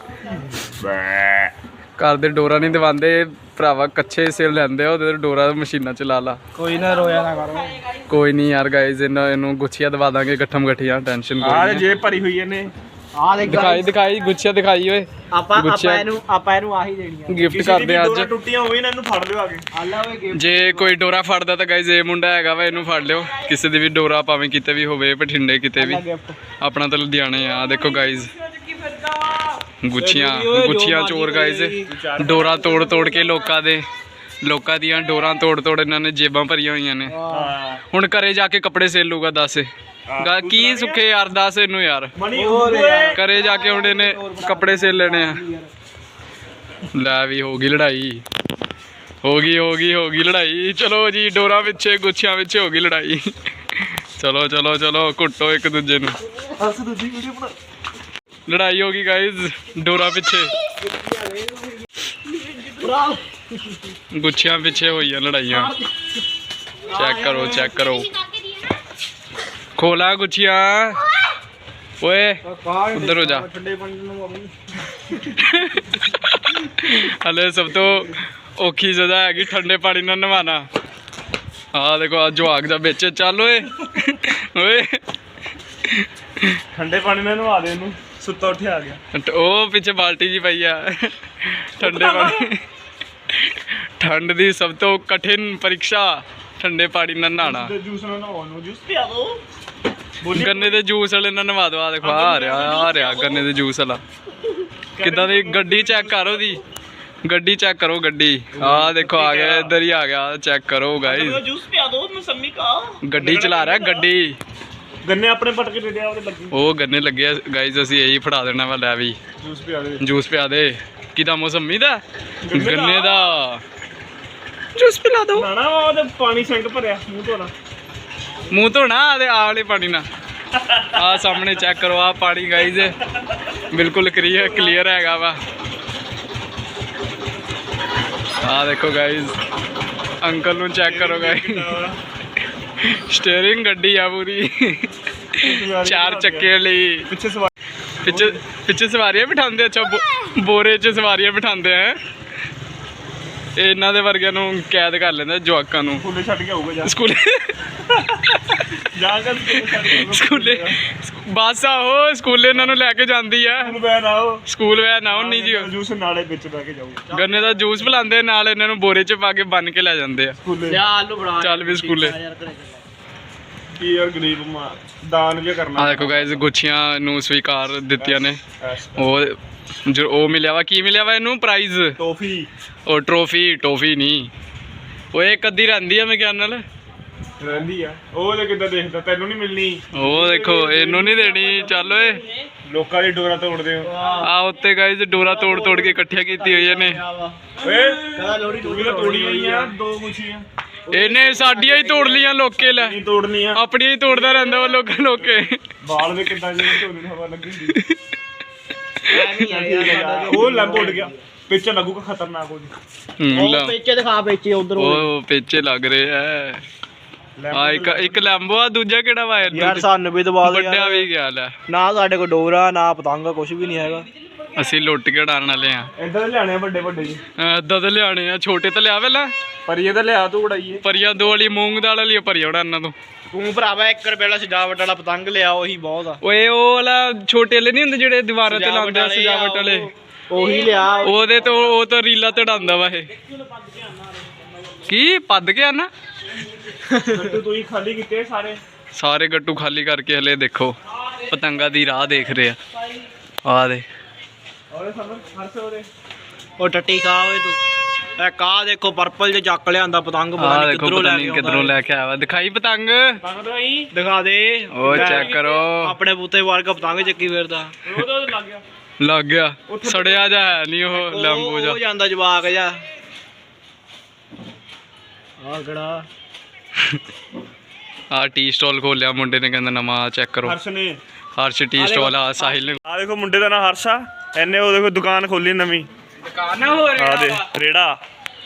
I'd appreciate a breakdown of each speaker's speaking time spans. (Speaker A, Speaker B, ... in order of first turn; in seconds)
Speaker A: 0.6-1.5, 11.4-12.7, 17.5-19.6, 31.9-33.1, 37.3-37.8, 40.1-41.0, 42.1-43.2, 56.6-57.5, 62.3-62.9, 86.7-89.0, 91.8-92.5, 97.4-99.4, 100.2-100.8, 102.0-103.4, 104.9-106.6, 108.5-109.7, 111.0-114.1, 115.0-116.5, 119.4-120.0, 122.4-123.4, 125.3-127.5, 130.5-131.0, 134.3-134.8, 140.8-142.0, 145.4-146.5, 147.1-147.5, 148.0-148.4, 155.9-156.9, 158.9-160.8, 162.5-162.8, 163.6-164.4, 165.1-167.1, 170.4-170.8, 173.7-176.4, 178.0-179.1, 182.0-182.5, 187.4-191.2, 192.7-193.9, 197.6-200.4, 202.6-207.8, 209.4-212.7, 217.4-218.3, 219.4-219.8, 226.0-227.2, 229.7-230.8, 247.1-248.6, 254.7-255.9, 263.2-263.9, 264.8-265.5, 267.8-268.6, 269.7-270.4, 280.4-280.9, 282.8-285.9, 286.9-287.9
Speaker B: 2.0-6.4, 8.1-11.8, 13.4-16.1, 17.3-18.3, 20.3-26.0, 26.6-28.3, 29.8-33.8, 34.4-37.1, 37.9-42.1, 43.1-45.4, 46.9-48.2, 49.2-53.2, 53.8-56.2, 58.5-60.5, 64.1-65.7, 66.9-68.1, 69.8-71.0, 72.0-72.4, 72.9-73.5, 75.3-80.6, 81.7-85.0, 85.9-86.5, 89.1-92.6, 93.3-97.7, 100.3-104.0, 105.0-106.6, 107.2-111.4, 113.0-114.4, 116.5-119.2, 120.0-122.0, 122.5-123.6, 124.8-125.5, 128.5-130.0, 130.9-132.9, 133.7-135.4, 138.4-139.3, 140.2-141.7, 142.8-147.1, 148.0-152.0, 153.6-156.0, 156.8-157.5, 159.5-163.7, 164.5-165.7, 167.1-170.3, 171.4-172.1, 175.8-178.4, 179.0-179.3, 179.9-181.9, 182.9-184.3, 185.1-186.6, 189.9-192.2, 194.2-197.0, 200.9-203.0, 203.5-205.6, 213.2-213.7, 214.8-216.6, 217.5-219.8, 220.4-221.5, 224.6-225.9, 227.4-229.3, 230.8-232.9, 236.2-239.9, 241.0-243.1, 244.9-245.9, 248.9-252.6, 253.4-253.8, 260.4-263.2, 264.7-265.9, 269.0-271.8, 278.1-280.6, 281.4-282.8, 286.2-287.4
Speaker C: 6.5-7.8, 13.1-13.9, 15.3-17.4, 19.7-20.9, 25.8-26.4, 28.4-31.9, 32.6-33.5, 37.0-37.5, 42.3-45.7, 60.8-61.9, 62.7-63.9, 65.5-65.9, 66.9-68.0, 72.4-75.3, 167.1-168.0, 170.7-172.8, 191.2-192.3, 193.8-194.3, 195.2-199.7, 200.9-202.6, 209.1-211.2, 213.3-215.1, 219.5-221.1, 221.7-224.1, 233.3-236.2, 238.4-241.7, 246.9-247.3, 256.6-257.6, 258.1-261.8, 263.9-267.7, 270.9-272.8, 275.4-276.1, 281.7-282.6